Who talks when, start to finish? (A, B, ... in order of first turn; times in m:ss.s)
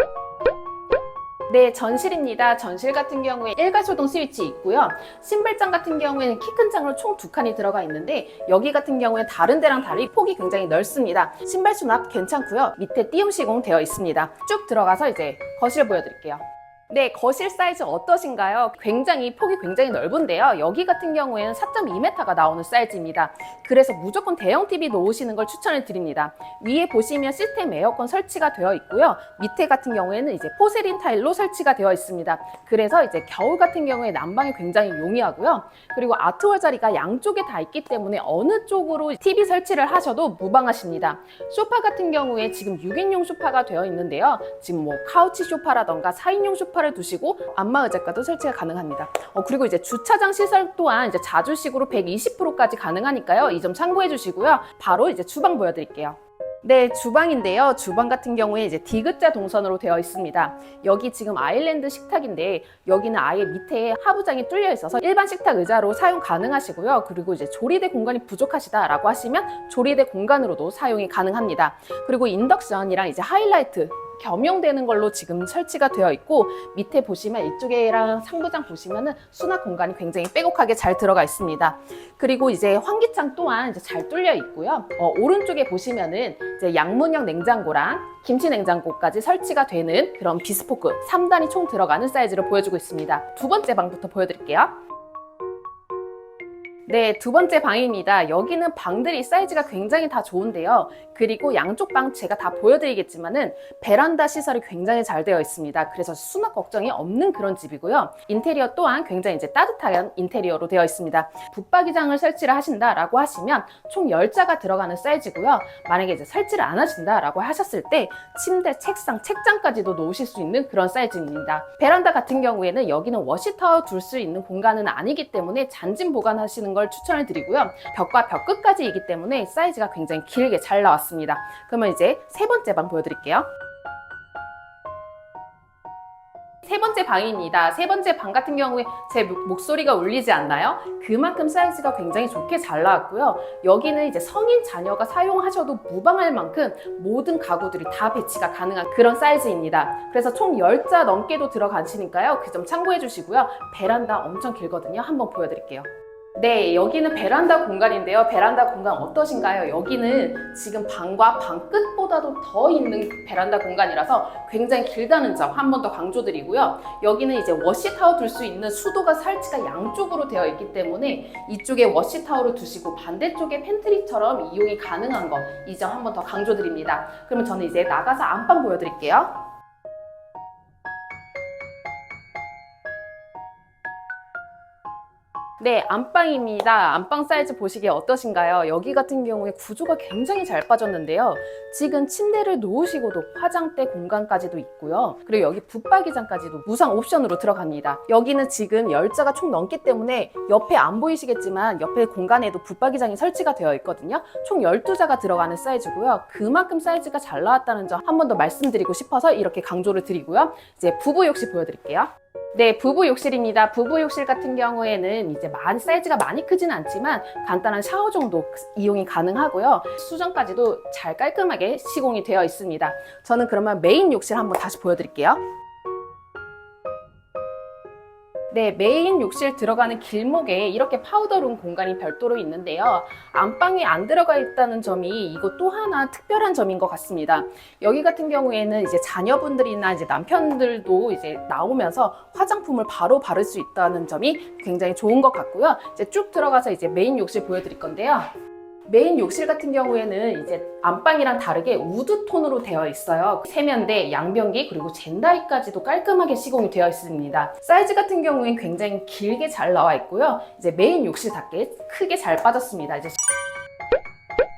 0:01.5-1:34.8 A
1:36.9-2:13.5 A
2:16.6-2:59.5 A
3:05.6-3:45.4 A
3:48.5-4:08.3 A
4:08.9-4:23.2 A